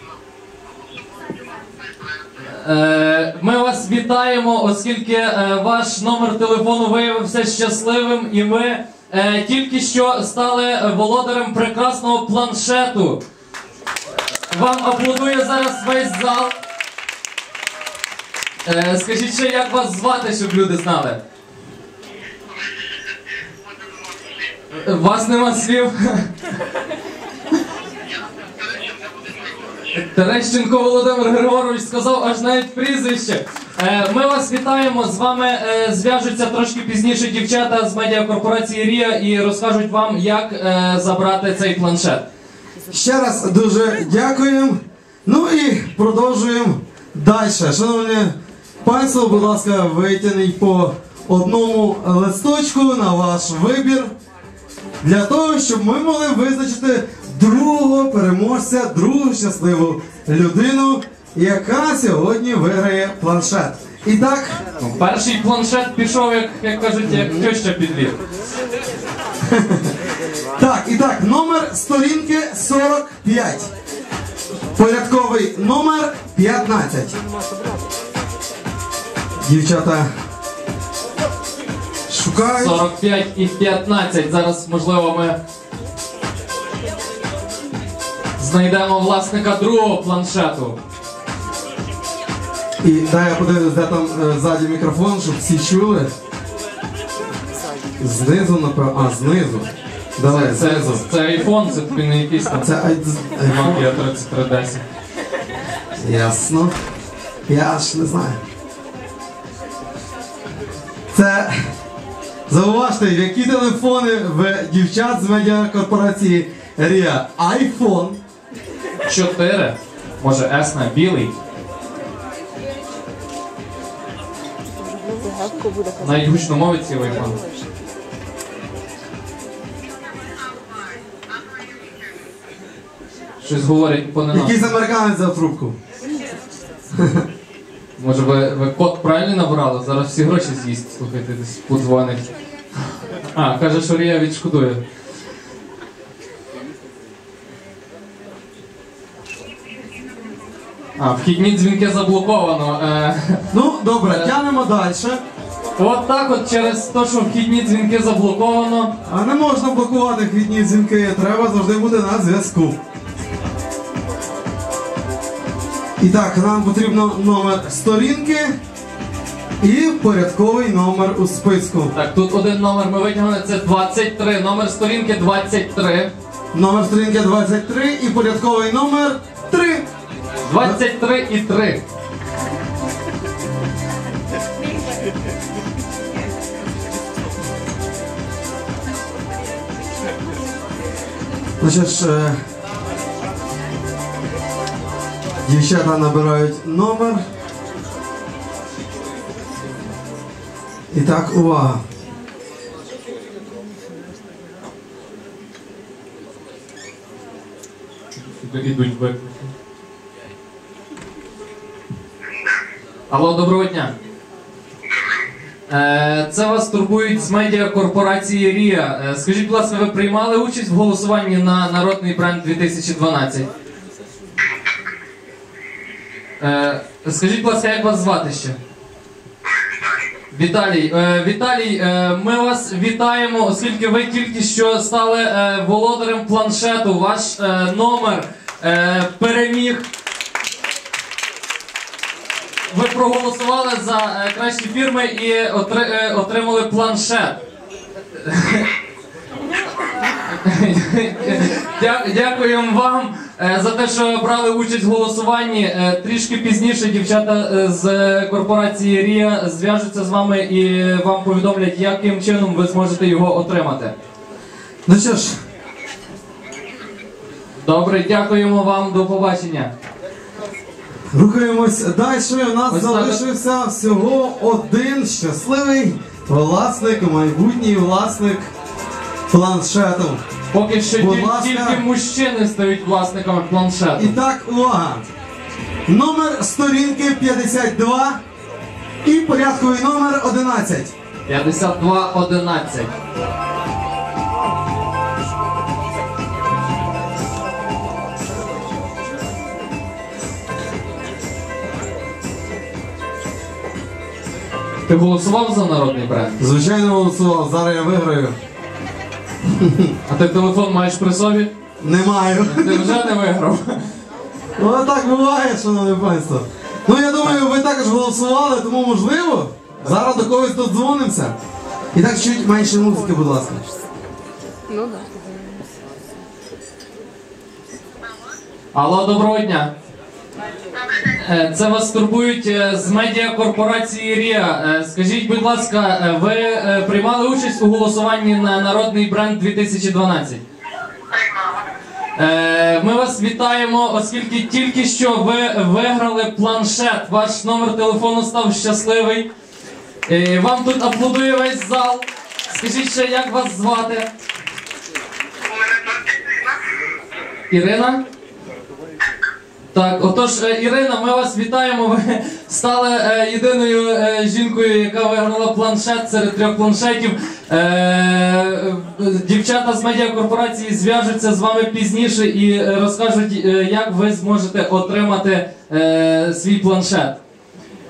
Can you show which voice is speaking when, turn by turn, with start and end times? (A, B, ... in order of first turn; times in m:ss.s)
0:02.4-0:13.2 A
0:14.5-0:16.6 A
0:18.6-0:21.2 A
0:24.7-0:26.3 A
0:29.9-0:42.2 A
0:42.9-0:54.1 B
0:55.0-1:04.6 B
1:04.8-1:08.2 A
1:07.0-1:07.5 B
1:09.4-1:09.9 B
1:10.6-1:13.7 B
1:14.7-1:17.2 B
1:19.4-1:20.1 B
1:22.1-1:22.8 B
1:22.5-1:25.4 A
1:28.4-1:30.8 A
1:32.8-1:36.1 B
1:38.0-1:41.0 B
1:40.2-1:42.7 A
1:42.6-1:43.9 B
1:43.4-1:44.8 A
1:46.0-1:46.7 B
1:47.5-1:48.4 B
1:51.1-1:51.6 B
1:52.5-1:58.2 B
1:59.0-2:01.3 A
2:06.0-2:07.4 A
2:13.4-2:14.7 A
2:14.3-2:15.8 B
2:17.0-2:17.2 B
2:18.0-2:22.3 A
2:23.3-2:24.8 A
2:31.0-2:33.4 A
2:33.5-2:35.2 B
2:34.0-2:34.3 A
2:35.8-2:38.9 A
2:39.0-2:42.8 B
2:46.0-2:48.5 B
2:49.6-2:51.9 B
2:51.9-2:56.1 A
2:56.5-2:59.8 B
3:00.4-3:01.8 A
3:11.6-3:12.4 B
3:15.4-3:17.2 B
3:20.9-3:21.8 B
3:28.2-3:29.5 A
3:33.1-3:33.9 A
3:35.7-3:43.5 A
3:46.4-3:48.6 A
3:50.3-3:59.8 A
4:02.7-4:07.4 A
4:08.2-4:08.7 A
4:10.2-4:23.9 A
4:24.8-4:25.4 B
4:27.6-4:29.7 A
4:31.1-4:38.5 B
4:32.7-4:33.2 A
4:39.3-4:40.2 B
4:40.5-4:44.1 A
4:41.0-4:41.8 B
4:44.0-4:45.0 B
4:45.9-4:48.2 B
4:49.0-4:50.9 B
4:51.3-4:52.9 A
5:04.9-5:06.4 A
5:06.4-5:08.4 B
5:09.4-5:09.9 B
5:10.1-5:11.5 A
5:11.8-5:13.0 B
5:12.4-5:13.9 A
5:14.6-5:21.3 B
5:21.9-5:23.6 B
5:28.7-5:29.7 A
5:31.0-5:40.4 A
5:42.2-5:49.3 A
5:50.1-5:54.1 A
5:57.5-5:58.0 A
5:59.7-6:17.2 A